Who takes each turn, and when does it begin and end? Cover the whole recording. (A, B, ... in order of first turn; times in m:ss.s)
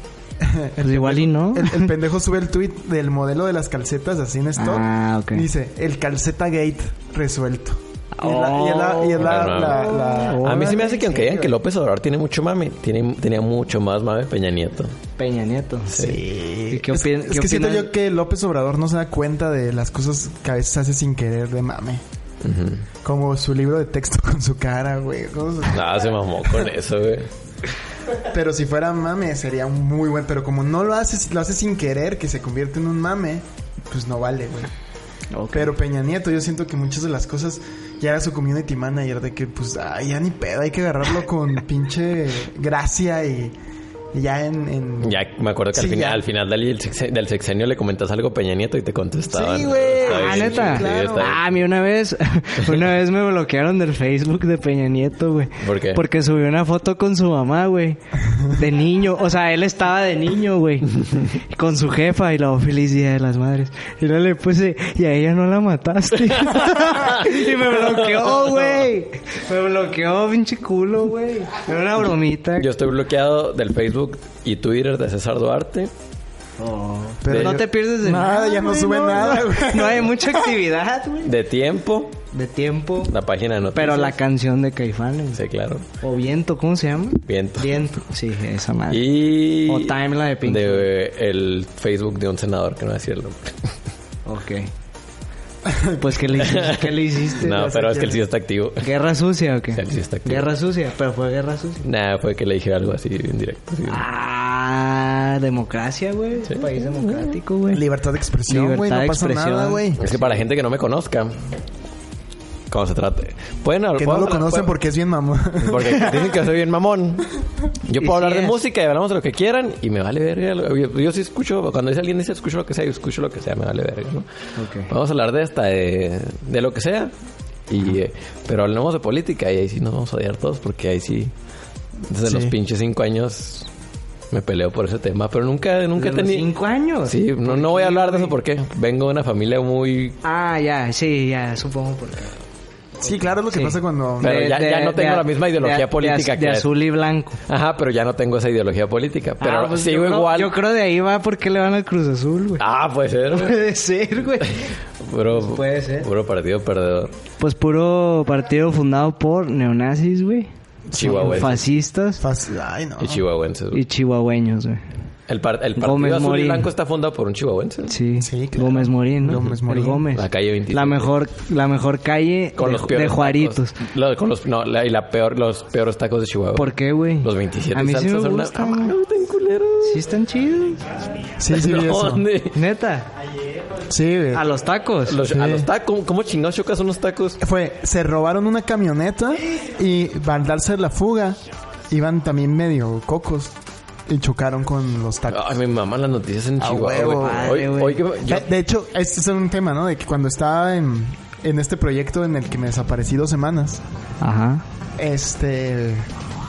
0:00.4-0:11.6 A
0:00.8-0:01.9 B
0:04.6-0:05.4 B
0:08.1-0:10.9 B
0:09.2-0:14.9 C
0:15.2-0:16.1 B
0:15.9-0:16.2 C
0:15.9-0:22.0 A
0:16.7-0:17.9 B
0:22.4-0:22.9 C
0:23.0-0:26.7 A
0:25.7-0:27.3 C
0:28.2-0:34.7 A
0:35.3-0:35.7 B
0:35.5-0:43.5 A
0:44.1-0:45.2 A
0:45.0-0:51.4 C
0:45.7-0:46.2 A
0:49.3-0:51.4 A
0:50.0-1:12.7 B
0:55.6-0:56.0 C
1:06.3-1:08.8 C
1:12.6-1:15.9 C
1:16.6-1:21.3 B
1:17.2-1:20.5 A
1:17.3-1:17.6 C
1:21.2-1:22.2 C
1:22.3-1:23.1 B
1:23.1-1:24.2 C
1:23.7-1:25.4 B
1:25.3-1:25.8 C
1:26.0-1:29.1 B
1:27.3-1:27.9 C
1:28.9-1:33.7 C
1:29.7-1:30.9 B
1:34.2-1:34.7 B
1:35.6-1:36.2 A
1:36.0-1:37.7 B
1:36.4-1:38.9 C
1:37.4-1:38.2 A
1:38.8-1:41.8 B
1:39.7-1:40.5 C
1:41.8-1:44.0 C
1:43.8-1:47.8 B
1:46.5-1:47.4 C
1:47.7-1:50.0 A
1:48.5-1:50.4 B
1:50.0-1:51.4 C
1:52.7-1:54.7 C
1:54.0-1:56.4 A
1:55.6-1:57.3 C
1:57.8-2:04.2 C
1:58.0-1:58.6 B
2:04.6-2:04.9 B
2:04.8-2:07.1 C
2:07.7-2:11.3 C
2:12.1-2:13.7 C
2:12.2-2:12.5 A
2:14.3-2:16.5 C
2:16.0-2:18.3 B
2:17.0-2:20.2 C
2:20.2-2:22.3 B
2:23.0-2:24.4 A
2:23.5-2:27.4 B
2:24.2-2:26.7 C
2:27.5-2:30.5 C
2:29.4-2:32.6 B
2:32.6-2:33.6 C
2:33.3-2:34.7 B
2:34.4-2:37.1 C
2:35.3-2:36.1 B
2:37.4-2:42.2 B
2:40.9-2:41.5 A
2:40.9-2:41.6 C
2:42.2-2:43.2 A
2:43.0-2:43.8 C
2:43.7-2:44.8 B
2:45.3-2:47.9 C
2:45.8-2:46.7 B
2:47.9-2:53.8 B
2:48.2-2:50.1 A
2:50.1-2:51.1 C
2:52.6-3:00.0 C
2:56.5-2:58.9 B
2:59.8-3:01.0 B
3:01.4-3:02.3 A
3:01.5-3:02.6 C
3:02.5-3:03.1 B
3:03.9-3:04.4 A
3:04.3-3:05.2 B
3:05.0-3:07.4 C
3:05.3-3:05.7 A
3:07.4-3:11.4 A
3:11.9-3:13.5 A
3:14.1-3:15.6 A
3:15.3-3:18.4 C
3:16.6-3:17.6 A
3:17.0-3:18.0 B
3:18.2-3:23.8 A
3:24.2-3:24.6 B
3:25.0-3:26.1 A